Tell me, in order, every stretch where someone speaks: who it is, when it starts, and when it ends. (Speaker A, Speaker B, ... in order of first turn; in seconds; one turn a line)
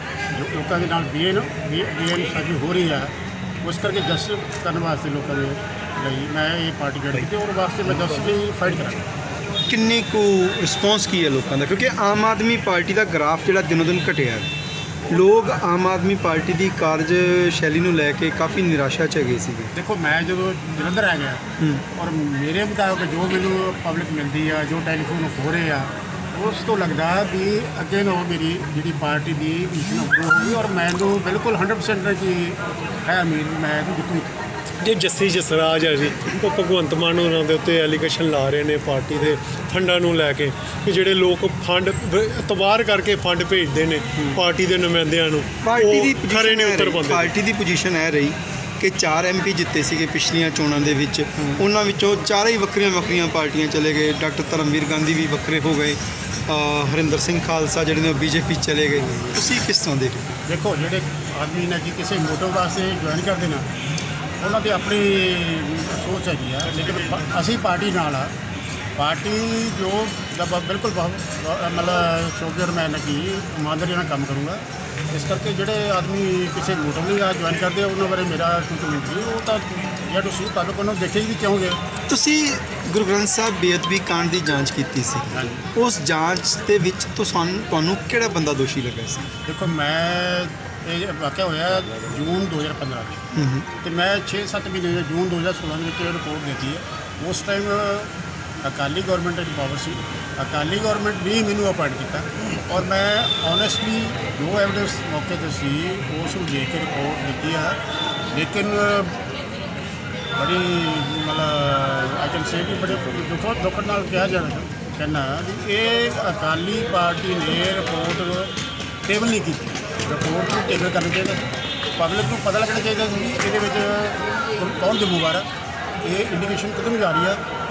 Speaker A: 0.3-3.1
Speaker A: 3.6-9.1
Speaker B: 9.7-14.5
Speaker B: 15.1-19.7
Speaker A: 19.7-34.4
Speaker C: 34.8-47.3
Speaker B: 44.2-44.4
Speaker B: 45.6-60.3
Speaker A: 60.5-63.7
Speaker A: 64.4-68.3
Speaker A: 69.0-81.8
Speaker B: 82.1-89.3
Speaker A: 85.3-85.7
Speaker A: 89.5-107.8
Speaker B: 93.3-93.7
Speaker A: 108.3-109.2
Speaker A: 110.3-118.5
Speaker A: 119.0-125.5
Speaker A: 126.0-127.4